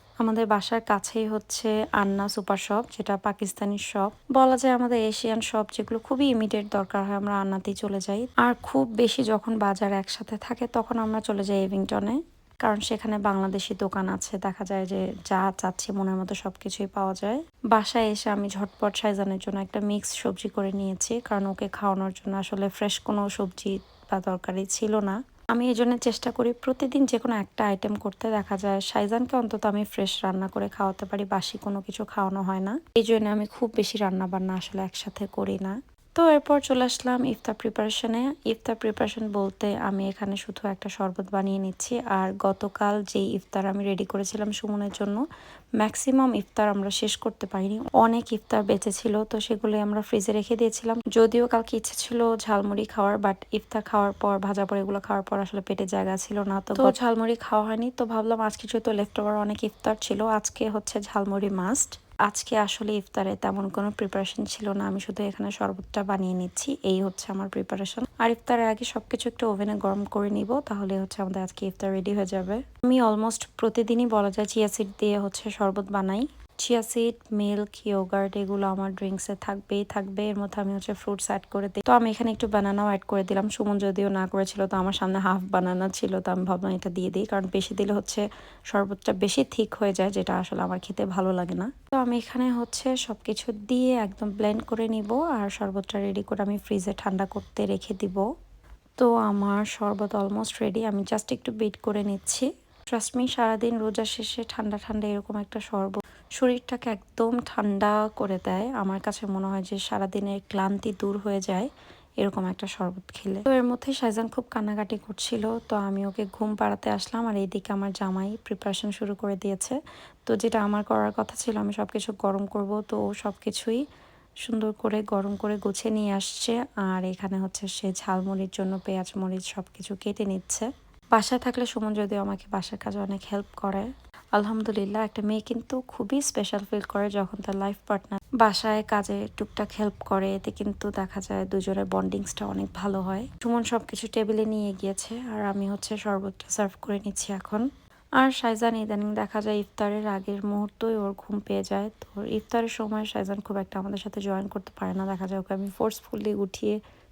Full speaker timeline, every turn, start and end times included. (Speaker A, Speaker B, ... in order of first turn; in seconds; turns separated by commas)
Speaker A: 0.2-45.2, Speaker A: 45.8-98.2, Speaker A: 99.0-111.7, Speaker A: 112.2-123.8, Speaker A: 124.4-147.6, Speaker A: 148.2-156.8